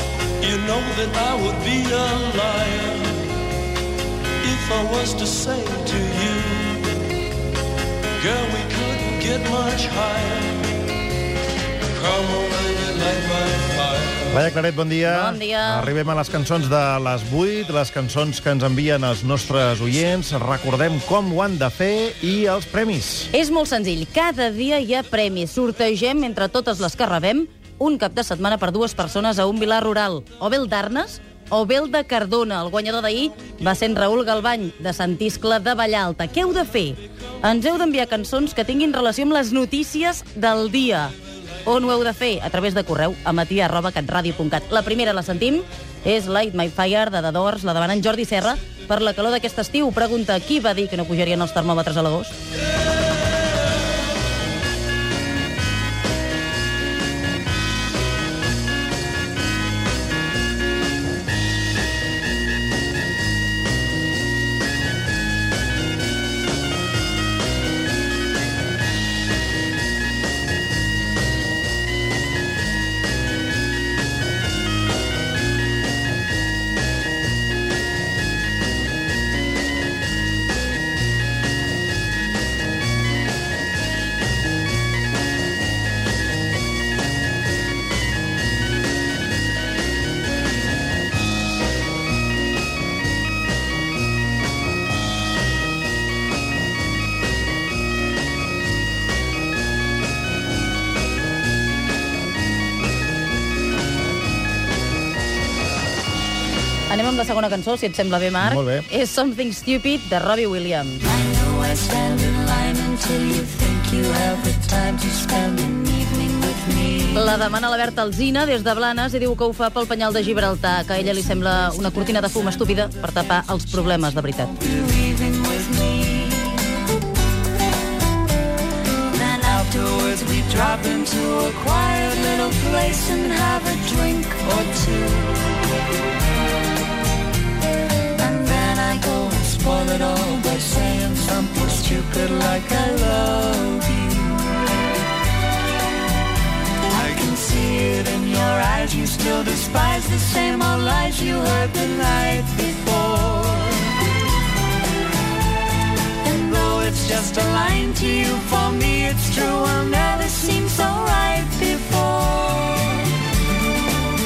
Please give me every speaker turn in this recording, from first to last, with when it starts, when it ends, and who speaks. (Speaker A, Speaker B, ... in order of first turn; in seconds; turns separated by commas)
Speaker A: 0.4-3.3, Speaker A: 4.4-6.9, Speaker A: 8.2-10.7, Speaker A: 11.9-14.3, Speaker B: 14.3-23.3, Speaker C: 15.1-15.9, Speaker C: 23.3-41.1, Speaker C: 41.6-52.4, Speaker C: 106.9-111.0, Speaker B: 108.4-108.8, Speaker D: 111.0-117.3, Speaker C: 117.2-124.6, Speaker D: 124.6-126.8, Speaker D: 129.1-135.6, Speaker D: 138.2-144.5, Speaker D: 146.9-154.0, Speaker D: 156.2-163.2